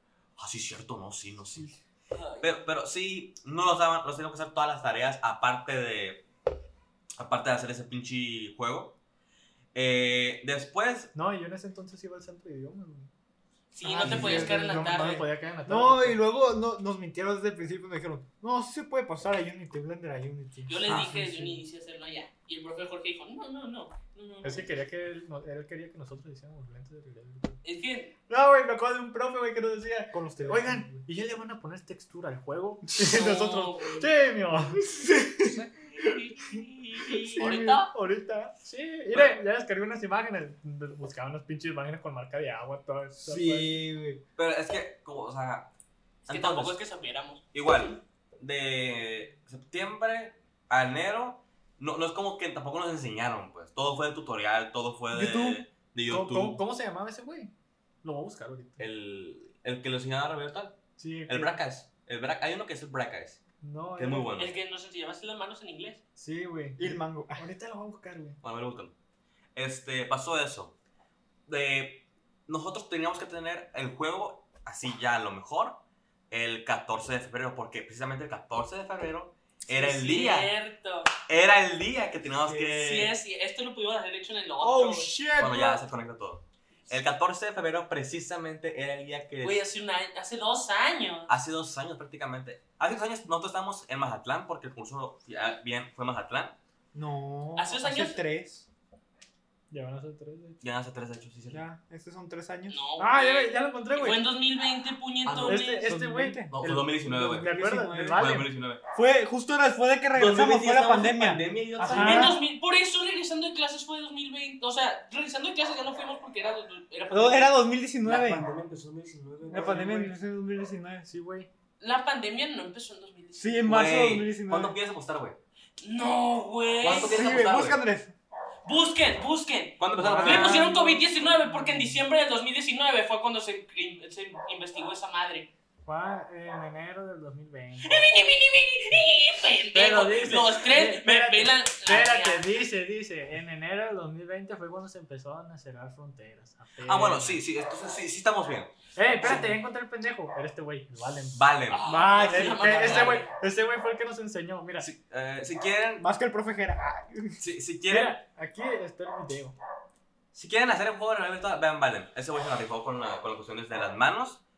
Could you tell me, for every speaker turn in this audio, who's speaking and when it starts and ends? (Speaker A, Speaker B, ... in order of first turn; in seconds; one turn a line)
Speaker A: 0.4-1.7
Speaker B: 2.1-2.5
Speaker A: 2.4-6.3
Speaker A: 7.2-9.0
Speaker A: 9.7-11.1
Speaker C: 11.1-13.1
Speaker B: 13.7-15.2
Speaker D: 13.8-21.4
Speaker C: 14.0-16.2
Speaker B: 20.7-24.7
Speaker C: 20.9-21.5
Speaker C: 24.4-27.6
Speaker B: 27.6-28.1
Speaker C: 28.3-35.0
Speaker D: 30.1-31.1
Speaker B: 33.0-34.1
Speaker D: 34.9-35.6
Speaker B: 35.5-37.9
Speaker D: 37.1-37.9
Speaker C: 37.9-43.8
Speaker D: 43.2-44.2
Speaker A: 44.4-45.7
Speaker B: 46.3-47.5
Speaker A: 46.3-46.8
Speaker A: 47.5-56.6
Speaker D: 55.1-55.6
Speaker C: 56.1-57.5
Speaker C: 58.0-58.8
Speaker A: 58.8-63.4
Speaker C: 61.0-61.6
Speaker C: 63.6-64.3
Speaker A: 64.0-64.5
Speaker B: 64.4-66.0
Speaker C: 66.2-68.4
Speaker D: 66.8-67.5
Speaker A: 68.4-68.9
Speaker A: 69.5-70.8
Speaker A: 71.5-80.5
Speaker B: 79.7-81.1
Speaker A: 81.3-83.2
Speaker D: 82.4-82.8
Speaker B: 82.7-85.1
Speaker D: 84.6-85.8
Speaker A: 85.4-89.6
Speaker B: 89.4-91.3
Speaker A: 91.3-96.6
Speaker D: 96.9-98.7
Speaker B: 97.6-98.2
Speaker C: 99.7-100.6
Speaker A: 100.6-101.6
Speaker D: 101.5-102.8
Speaker B: 102.7-105.9
Speaker C: 103.0-104.2
Speaker A: 105.2-105.6
Speaker C: 105.5-108.5
Speaker D: 105.8-106.6
Speaker A: 106.5-107.5
Speaker D: 107.2-112.4
Speaker A: 108.2-108.8
Speaker A: 110.1-112.3
Speaker B: 111.9-117.6
Speaker C: 112.0-112.3
Speaker D: 117.1-118.5
Speaker A: 118.0-120.2
Speaker D: 119.5-121.1
Speaker C: 121.1-121.5
Speaker B: 121.8-123.7
Speaker D: 123.3-124.8
Speaker A: 123.7-125.4
Speaker B: 125.8-127.3
Speaker A: 126.8-127.8
Speaker D: 126.8-128.1
Speaker B: 128.7-135.5
Speaker A: 129.8-130.7
Speaker C: 130.0-132.0
Speaker C: 135.9-138.0
Speaker B: 137.8-142.5
Speaker C: 139.7-147.4
Speaker A: 146.8-149.6
Speaker C: 148.9-154.9
Speaker A: 151.3-151.8
Speaker B: 151.7-153.3
Speaker A: 152.4-153.1
Speaker A: 154.8-156.1
Speaker D: 156.0-157.4
Speaker A: 157.4-158.2
Speaker C: 157.9-159.6
Speaker A: 160.3-164.4